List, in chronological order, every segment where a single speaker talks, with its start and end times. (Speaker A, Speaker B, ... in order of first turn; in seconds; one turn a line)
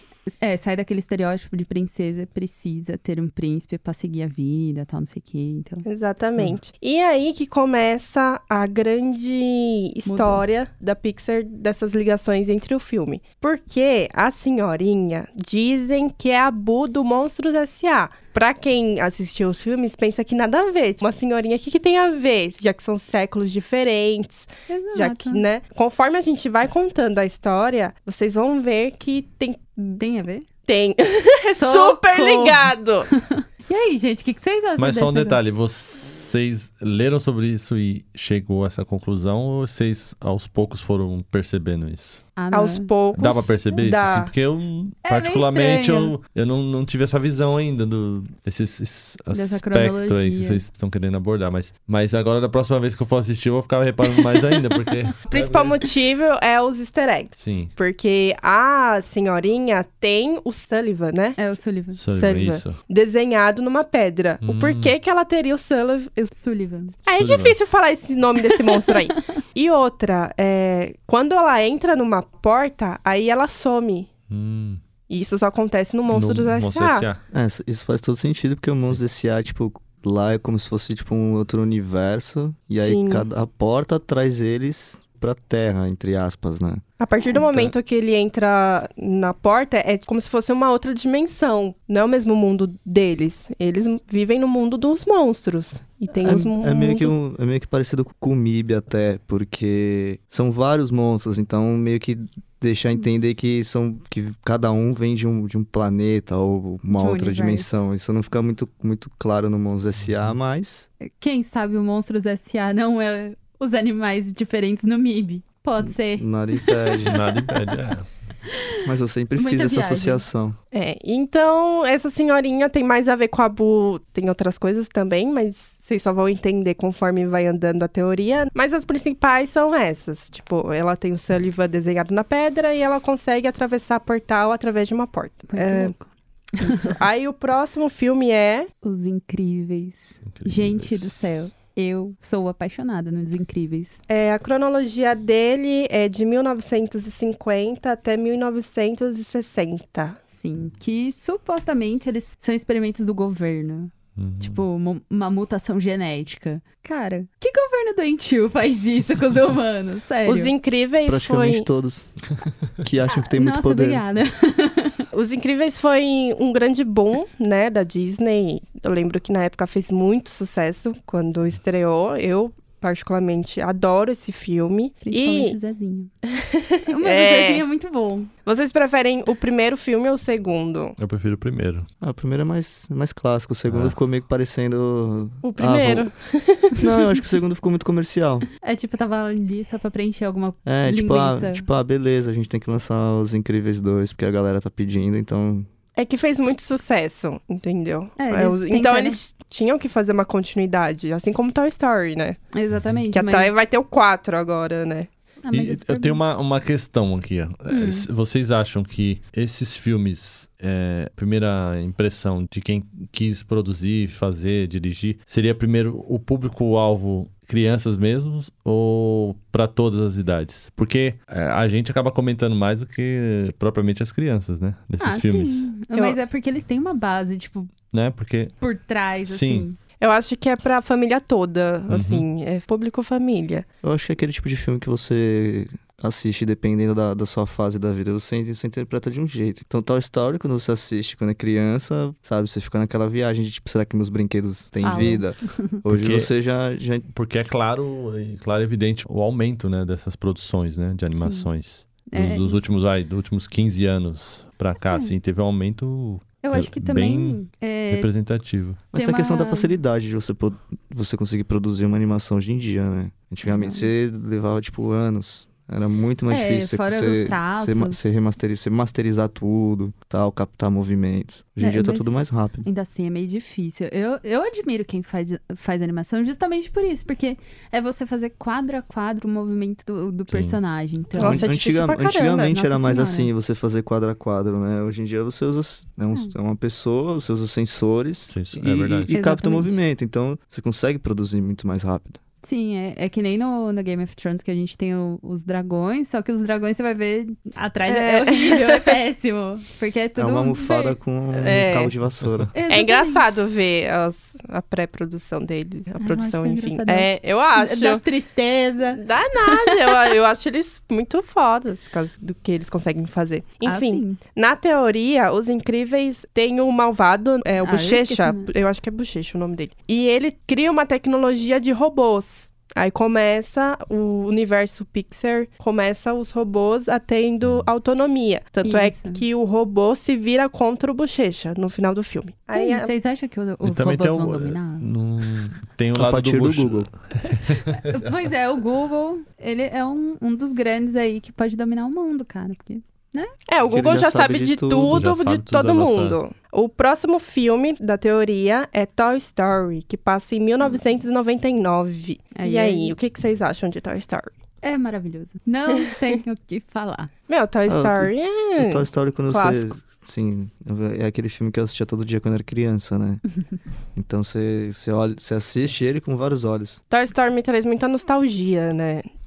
Speaker A: 0.3-5.8
Speaker B: 5.8-30.0
Speaker A: 10.0-10.4
Speaker A: 24.7-25.4
Speaker A: 30.0-30.4
Speaker B: 30.6-33.1
Speaker A: 31.5-35.4
Speaker C: 34.8-42.2
Speaker A: 42.4-42.9
Speaker B: 42.5-44.3
Speaker C: 43.1-55.8
Speaker A: 45.0-46.1
Speaker A: 49.3-50.6
Speaker B: 55.3-61.4
Speaker C: 57.4-57.7
Speaker A: 61.4-62.0
Speaker C: 62.0-62.8
Speaker B: 62.1-66.3
Speaker C: 64.4-64.9
Speaker A: 66.3-66.9
Speaker B: 67.0-74.1
Speaker C: 67.1-67.6
Speaker A: 68.7-69.2
Speaker C: 74.3-74.8
Speaker B: 75.1-77.0
Speaker C: 76.1-77.2
Speaker D: 77.3-87.7
Speaker B: 82.8-83.3
Speaker B: 87.0-97.1
Speaker D: 96.2-110.9
Speaker A: 106.9-107.8
Speaker A: 111.0-117.1
Speaker D: 115.8-117.2
Speaker C: 117.0-118.0
Speaker D: 118.8-120.5
Speaker A: 119.3-120.2
Speaker B: 120.7-135.9
Speaker A: 135.5-137.0
Speaker B: 136.6-138.7
Speaker A: 138.8-144.0
Speaker C: 140.2-141.2
Speaker B: 144.1-150.2
Speaker A: 150.3-160.5
Speaker C: 154.2-154.6
Speaker B: 160.2-161.7
Speaker D: 161.0-162.2
Speaker D: 162.8-164.0
Speaker A: 163.2-165.0
Speaker B: 165.1-175.6
Speaker A: 175.0-176.1
Speaker B: 176.3-177.6
Speaker A: 176.9-178.3
Speaker B: 178.4-180.9
Speaker C: 181.0-181.9
Speaker D: 182.0-186.1
Speaker C: 183.7-183.9
Speaker B: 185.4-186.8
Speaker D: 186.8-188.5
Speaker A: 188.6-191.7
Speaker D: 190.7-195.7
Speaker B: 195.9-202.4
Speaker A: 198.2-199.2
Speaker A: 202.5-203.5
Speaker B: 203.1-205.1
Speaker A: 205.4-206.2
Speaker C: 205.5-225.7
Speaker A: 207.7-208.1
Speaker A: 225.0-227.7
Speaker C: 227.9-228.5
Speaker A: 228.6-229.8
Speaker C: 229.3-229.7
Speaker B: 230.0-233.7
Speaker C: 231.9-232.3
Speaker D: 233.8-247.1
Speaker A: 244.8-245.8
Speaker C: 245.9-246.3
Speaker C: 247.1-257.4
Speaker A: 251.2-251.5
Speaker A: 252.1-252.6
Speaker A: 256.4-258.1
Speaker C: 257.9-258.8
Speaker D: 258.9-272.6
Speaker A: 258.9-259.7
Speaker A: 263.4-263.9
Speaker A: 266.3-268.1
Speaker A: 271.6-281.5
Speaker C: 280.3-280.6
Speaker B: 281.1-282.5
Speaker D: 281.2-292.2
Speaker A: 282.3-283.3
Speaker C: 288.3-289.1
Speaker A: 289.1-289.8
Speaker A: 292.4-301.0
Speaker B: 297.9-298.9
Speaker D: 300.2-302.5
Speaker B: 301.3-301.9
Speaker C: 302.2-302.5
Speaker A: 302.5-303.4
Speaker B: 302.7-308.0
Speaker A: 306.0-309.9
Speaker B: 308.9-332.9
Speaker A: 313.6-314.2
Speaker A: 317.6-318.5
Speaker C: 327.4-327.7
Speaker A: 328.6-329.2
Speaker A: 332.5-334.9
Speaker C: 333.6-338.1
Speaker D: 335.9-336.9
Speaker A: 337.7-343.3
Speaker B: 343.5-354.3
Speaker D: 343.6-345.0
Speaker C: 344.9-346.2
Speaker A: 352.3-352.9
Speaker A: 354.6-357.1
Speaker B: 357.3-359.7
Speaker D: 357.7-363.2
Speaker D: 363.9-366.8
Speaker B: 366.9-369.1